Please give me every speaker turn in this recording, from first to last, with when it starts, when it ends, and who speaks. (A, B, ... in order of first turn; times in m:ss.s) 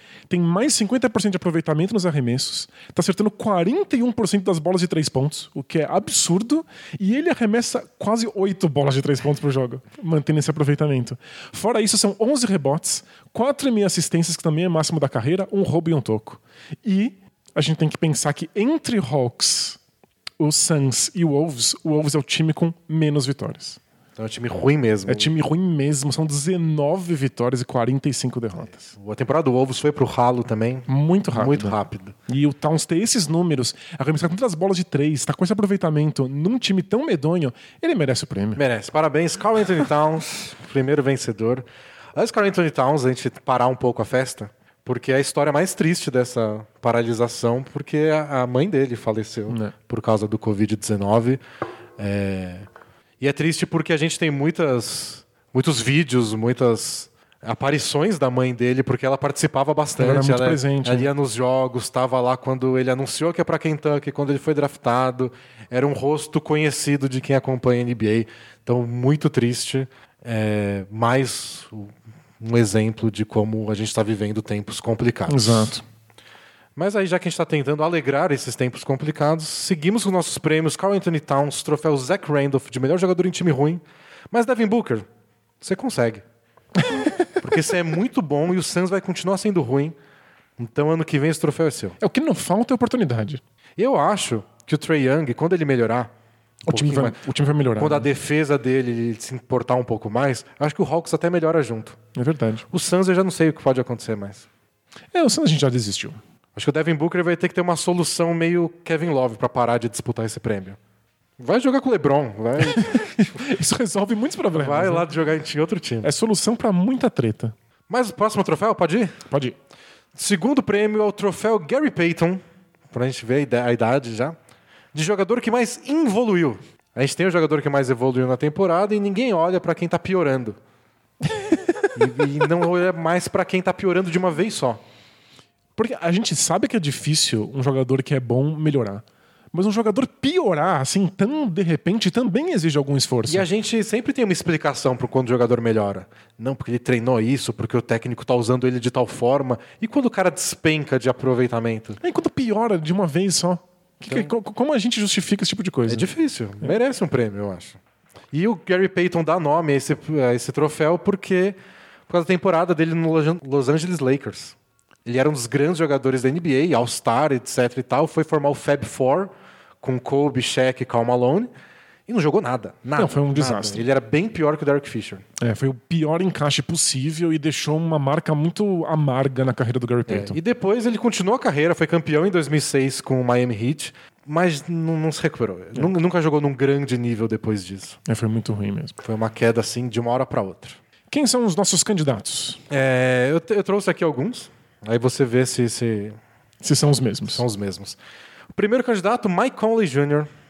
0:00.3-0:19.8 A
0:20.4-0:23.8 A
0:24.2-0:25.3 B
0:25.0-0:28.8 A
0:28.7-0:32.1 B
0:30.9-0:31.8 A
0:32.3-0:38.6 A
0:38.6-0:51.4 B
0:49.5-0:49.7 A
0:52.0-0:52.7 B
0:53.2-1:15.7 B
1:00.0-1:01.1 A
1:15.3-1:15.8 A
1:16.8-1:25.0 B
1:25.6-1:26.2 B
1:27.4-1:30.0 B
1:30.6-1:32.0 B
1:32.0-1:33.4 A
1:33.8-1:36.1 B
1:36.7-1:38.1 A
1:36.7-1:37.2 B
1:37.8-1:42.0 B
1:42.1-1:42.6 A
1:42.7-1:44.5 B
1:45.1-1:46.2 A
1:46.5-1:50.8 B
1:51.4-1:53.1 B
1:52.6-1:55.1 A
1:54.5-1:56.1 B
1:56.0-1:57.5 A
1:57.9-1:59.2 B
1:59.3-1:59.6 A
2:00.1-2:04.4 B
2:04.9-2:10.6 B
2:11.3-2:11.9 A
2:11.9-2:14.8 B
2:15.8-2:23.4 A
2:23.3-2:32.0 B
2:32.0-2:36.1 A
2:35.9-2:37.8 B
2:38.3-2:41.6 B
2:42.1-2:51.5 B
2:52.1-2:55.2 B
2:53.0-2:53.8 A
2:55.4-3:00.4 A
3:00.1-3:08.0 B
3:08.0-3:09.0 A
3:09.0-3:10.8 B
3:11.1-3:12.6 A
3:12.7-3:16.2 B
3:16.6-3:17.4 A
3:17.3-3:18.0 B
3:18.5-3:20.3 B